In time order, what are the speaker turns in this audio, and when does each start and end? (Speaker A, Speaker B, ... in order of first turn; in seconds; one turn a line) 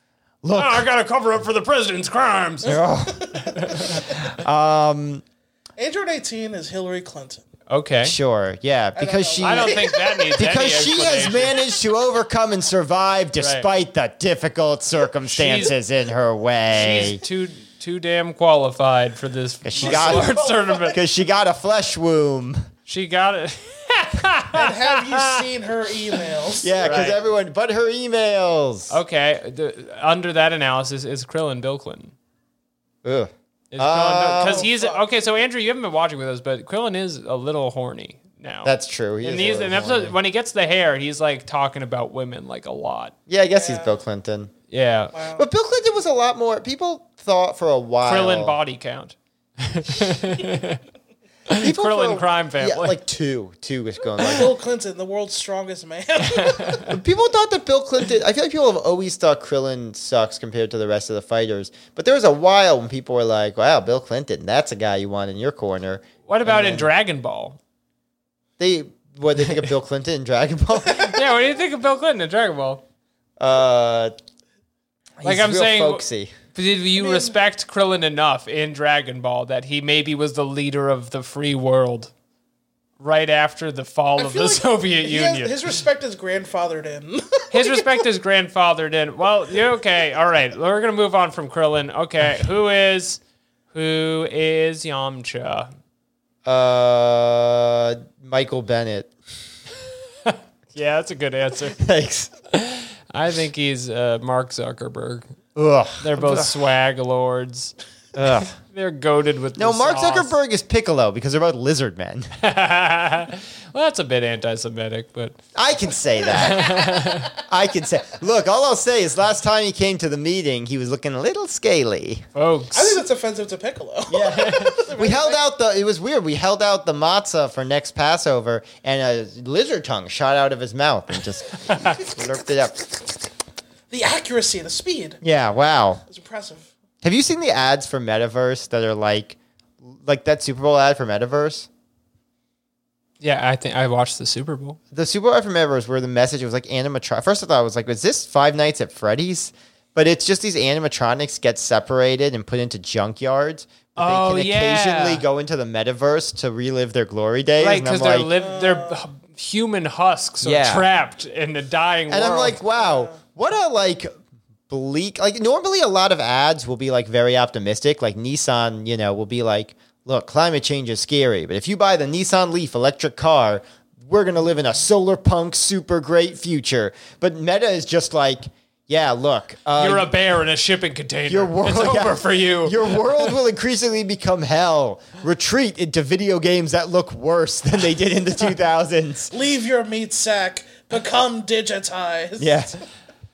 Speaker A: 0.4-0.8
Speaker B: 0.5-2.8
Speaker C: 2.6-4.1
Speaker A: 2.6-5.2
Speaker B: 3.5-4.0
Speaker C: 5.8-7.4
Speaker B: 7.7-8.2
Speaker A: 8.0-17.2
Speaker C: 8.9-10.3
Speaker B: 9.4-11.6
Speaker B: 13.4-13.7
Speaker B: 15.2-15.7
Speaker B: 16.7-21.0
Speaker A: 19.6-20.3
Speaker C: 19.8-21.0
Speaker A: 20.9-22.7
Speaker B: 22.9-25.4
Speaker C: 24.5-27.1
Speaker A: 26.6-29.0
Speaker B: 26.8-27.1
Speaker B: 28.9-32.1
Speaker A: 33.0-34.7
Speaker B: 33.7-43.1
Speaker C: 34.4-35.0
Speaker A: 38.6-40.1
Speaker A: 43.3-44.5
Speaker C: 43.5-44.0
Speaker B: 44.7-45.1
Speaker C: 45.1-45.5
Speaker A: 45.4-48.5
Speaker B: 48.0-50.8
Speaker B: 51.5-53.0
Speaker A: 51.6-54.5
Speaker C: 54.2-56.9
Speaker B: 56.3-56.9
Speaker A: 56.9-66.9
Speaker B: 66.3-67.6
Speaker A: 68.6-71.2
Speaker B: 70.9-72.8
Speaker A: 73.4-74.1
Speaker A: 75.2-76.3
Speaker B: 75.2-82.1
Speaker C: 77.0-77.3
Speaker B: 83.0-85.6
Speaker C: 84.2-87.9
Speaker B: 87.5-93.2
Speaker B: 93.7-95.7
Speaker A: 96.4-99.1
Speaker B: 100.2-101.8
Speaker A: 101.8-102.3
Speaker B: 102.5-105.3
Speaker A: 105.5-106.5
Speaker B: 106.0-107.7
Speaker A: 108.1-108.5
Speaker B: 108.5-110.3
Speaker A: 109.5-112.3
Speaker B: 112.4-115.4
Speaker A: 115.5-122.3
Speaker B: 116.3-117.3
Speaker B: 122.3-123.0
Speaker C: 122.7-125.4
Speaker A: 124.1-132.8
Speaker B: 124.3-124.8
Speaker B: 131.6-132.0
Speaker C: 133.9-135.2
Speaker A: 135.2-136.0
Speaker C: 136.1-136.7
Speaker A: 137.0-141.7
Speaker B: 143.2-144.8
Speaker A: 144.9-158.3
Speaker B: 154.0-155.2
Speaker B: 157.6-162.6
Speaker C: 158.3-159.0
Speaker A: 160.4-160.8
Speaker A: 162.1-164.1
Speaker C: 162.8-163.2
Speaker A: 164.7-180.1
Speaker B: 179.8-183.2
Speaker A: 181.3-189.3
Speaker C: 189.3-192.6
Speaker A: 192.4-192.8